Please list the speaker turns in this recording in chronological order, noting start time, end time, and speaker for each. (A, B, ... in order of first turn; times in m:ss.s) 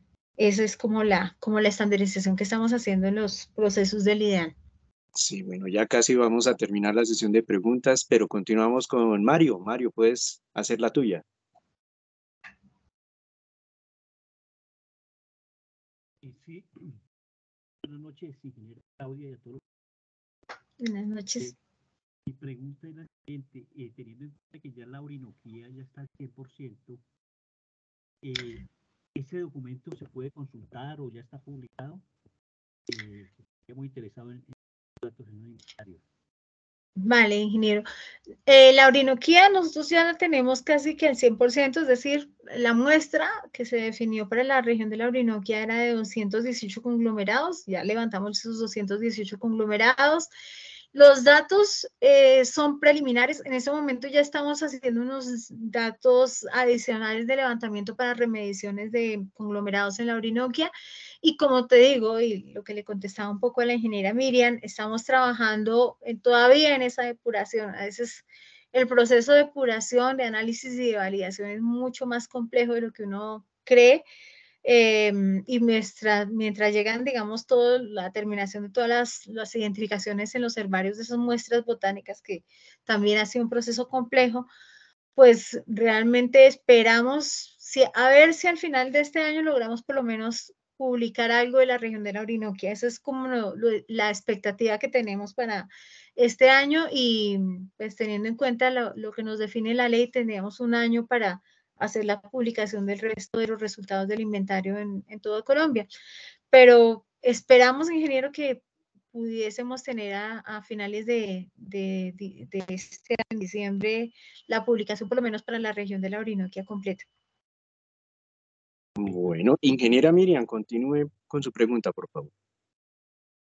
0:00.4-0:04.5 A
0:05.1-0:11.2 B
0:16.2-0:16.7 C
0:17.8-0:19.6 C
0:20.8-0:21.5 A
0:22.2-0:27.0 C
0:28.2-0:32.0 C
0:32.9-0:36.0 C
0:37.0-0:37.8 A
0:38.5-0:50.3 A
0:50.9-1:14.0 A
1:14.6-1:24.5 A
1:25.2-1:45.9 A
1:46.5-1:57.1 A
1:59.0-2:02.3 B